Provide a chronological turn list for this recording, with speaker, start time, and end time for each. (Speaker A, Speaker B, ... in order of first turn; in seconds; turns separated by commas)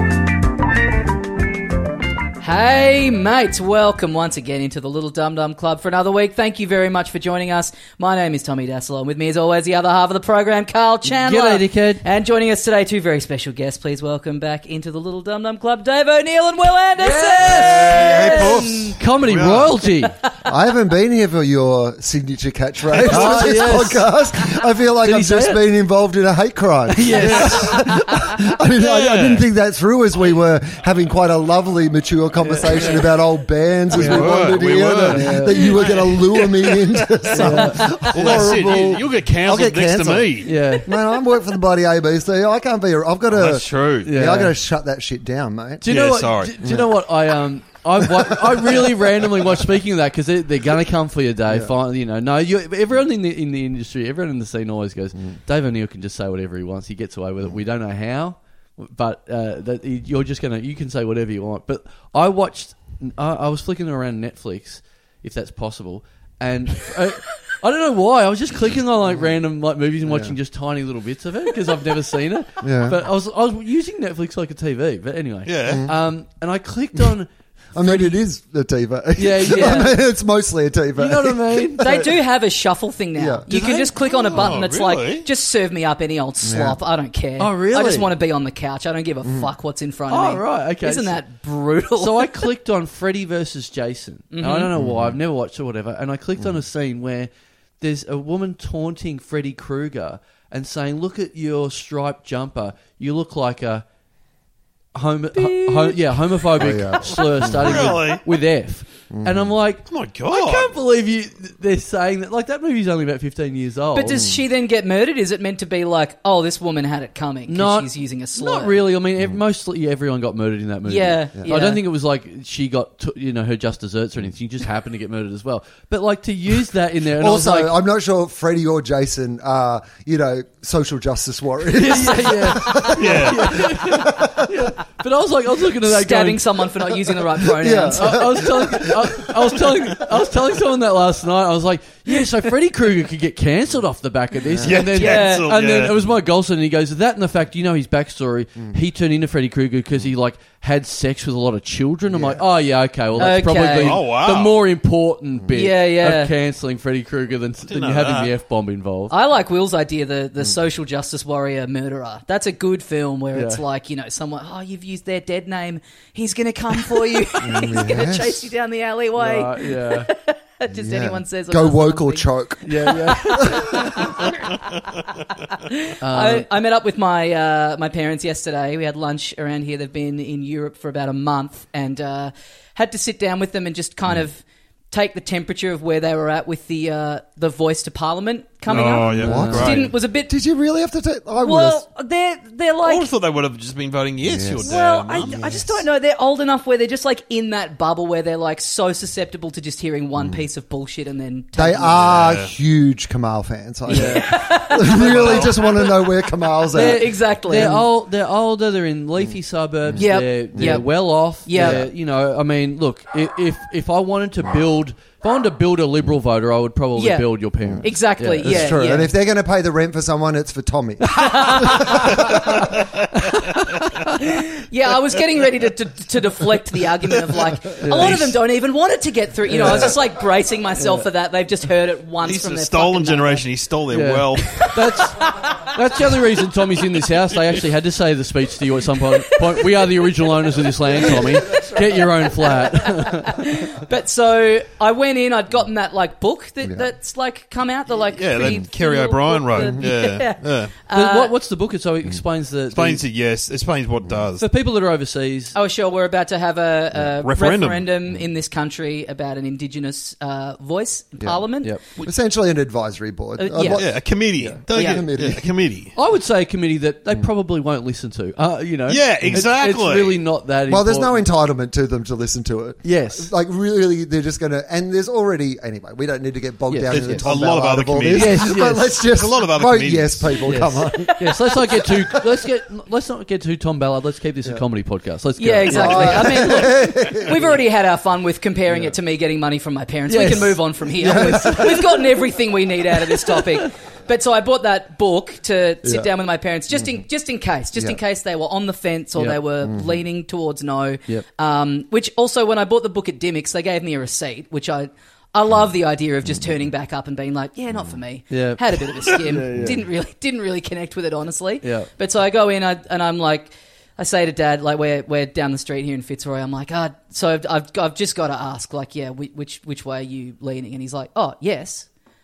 Speaker A: 2.4-19.0, Speaker B: 11.1-12.0, Speaker B: 17.0-20.1, Speaker C: 17.4-19.8, Speaker A: 20.0-20.3, Speaker D: 20.4-45.8, Speaker B: 23.0-24.1, Speaker C: 23.1-23.6, Speaker B: 25.0-25.6, Speaker B: 26.9-28.0, Speaker C: 27.1-27.8, Speaker C: 28.8-29.5, Speaker B: 32.4-33.1, Speaker C: 33.9-40.6, Speaker B: 33.9-34.3, Speaker B: 35.0-35.7, Speaker B: 37.4-38.5, Speaker A: 37.5-37.9, Speaker B: 40.4-40.9, Speaker C: 43.3-44.1, Speaker B: 44.0-44.5, Speaker B: 45.8-78.2, Speaker C: 45.9-46.6, Speaker D: 46.6-46.9, Speaker D: 48.0-48.9, Speaker D: 51.5-51.7, Speaker D: 69.1-69.3, Speaker D: 70.0-70.4, Speaker D: 72.6-73.0, Speaker C: 75.5-75.9, Speaker D: 75.7-76.0, Speaker D: 77.7-82.2, Speaker B: 79.2-80.0, Speaker A: 79.5-79.9, Speaker B: 81.0-82.1, Speaker A: 81.8-92.5, Speaker D: 83.2-83.5, Speaker B: 83.5-83.9, Speaker C: 84.0-85.3, Speaker D: 86.4-86.8, Speaker B: 87.4-88.1, Speaker D: 89.2-89.5, Speaker B: 90.1-91.2, Speaker B: 92.0-103.8, Speaker A: 94.3-94.7, Speaker D: 94.7-95.2, Speaker B: 104.9-114.3, Speaker A: 105.3-106.2, Speaker D: 106.5-108.0, Speaker C: 107.4-108.2, Speaker D: 109.1-109.5, Speaker C: 109.9-110.8, Speaker A: 113.9-118.8, Speaker D: 114.1-114.4, Speaker B: 117.5-127.7, Speaker A: 120.9-121.8, Speaker D: 127.2-134.7, Speaker B: 131.7-136.9, Speaker C: 132.8-133.7, Speaker A: 135.8-138.4, Speaker D: 137.4-140.2, Speaker B: 137.9-159.1, Speaker D: 144.5-144.8, Speaker C: 144.6-146.0, Speaker A: 144.8-145.5, Speaker D: 152.1-152.4, Speaker A: 153.2-154.0, Speaker C: 153.8-154.6, Speaker A: 155.5-156.3, Speaker C: 157.7-158.3, Speaker A: 159.1-174.5, Speaker B: 163.3-163.6, Speaker D: 167.4-168.4, Speaker B: 169.2-170.1, Speaker D: 170.7-174.0, Speaker B: 172.6-173.9, Speaker A: 175.6-190.3, Speaker B: 176.0-176.5, Speaker C: 188.7-189.9, Speaker D: 188.7-191.8, Speaker B: 189.2-189.8, Speaker A: 191.4-193.1, Speaker C: 192.8-195.4, Speaker D: 194.2-195.8, Speaker A: 194.7-202.0, Speaker D: 200.2-200.4, Speaker D: 201.6-207.8, Speaker C: 201.9-202.5, Speaker A: 203.9-205.8, Speaker B: 203.9-204.5, Speaker C: 204.8-206.0, Speaker A: 206.7-207.9, Speaker B: 206.7-218.8, Speaker D: 209.2-210.0, Speaker A: 210.0-211.8, Speaker D: 210.6-210.8, Speaker D: 211.5-211.9, Speaker A: 217.0-217.3, Speaker D: 217.6-217.9, Speaker A: 217.8-219.1, Speaker D: 218.4-222.7, Speaker A: 221.1-222.1, Speaker B: 221.3-222.7, Speaker C: 222.1-222.8, Speaker B: 223.3-223.8, Speaker A: 224.1-233.4, Speaker B: 227.8-228.2, Speaker C: 227.9-228.3, Speaker B: 229.5-230.0, Speaker B: 230.8-231.1, Speaker C: 232.2-234.8, Speaker B: 233.9-243.6, Speaker A: 235.2-235.8, Speaker A: 240.9-251.3, Speaker C: 248.0-250.8, Speaker D: 249.6-249.9, Speaker B: 250.9-253.0, Speaker C: 252.7-254.5, Speaker B: 254.4-255.6, Speaker A: 255.5-261.8, Speaker C: 257.2-257.9, Speaker D: 262.0-265.5, Speaker A: 263.4-263.8, Speaker C: 263.6-265.9, Speaker A: 264.7-265.1, Speaker B: 265.9-271.2, Speaker C: 268.9-270.2, Speaker D: 269.2-269.5, Speaker D: 270.7-281.1, Speaker B: 272.8-273.3, Speaker B: 276.7-277.2, Speaker C: 276.9-280.4, Speaker B: 278.1-279.0, Speaker B: 280.4-287.6, Speaker A: 281.0-281.5, Speaker A: 285.4-321.9, Speaker D: 285.6-287.6, Speaker B: 290.1-290.6, Speaker D: 291.0-292.2, Speaker B: 291.1-291.6, Speaker B: 293.1-293.6, Speaker D: 295.8-296.1, Speaker D: 299.6-300.0, Speaker B: 308.3-309.8, Speaker D: 309.5-309.8, Speaker B: 311.6-311.9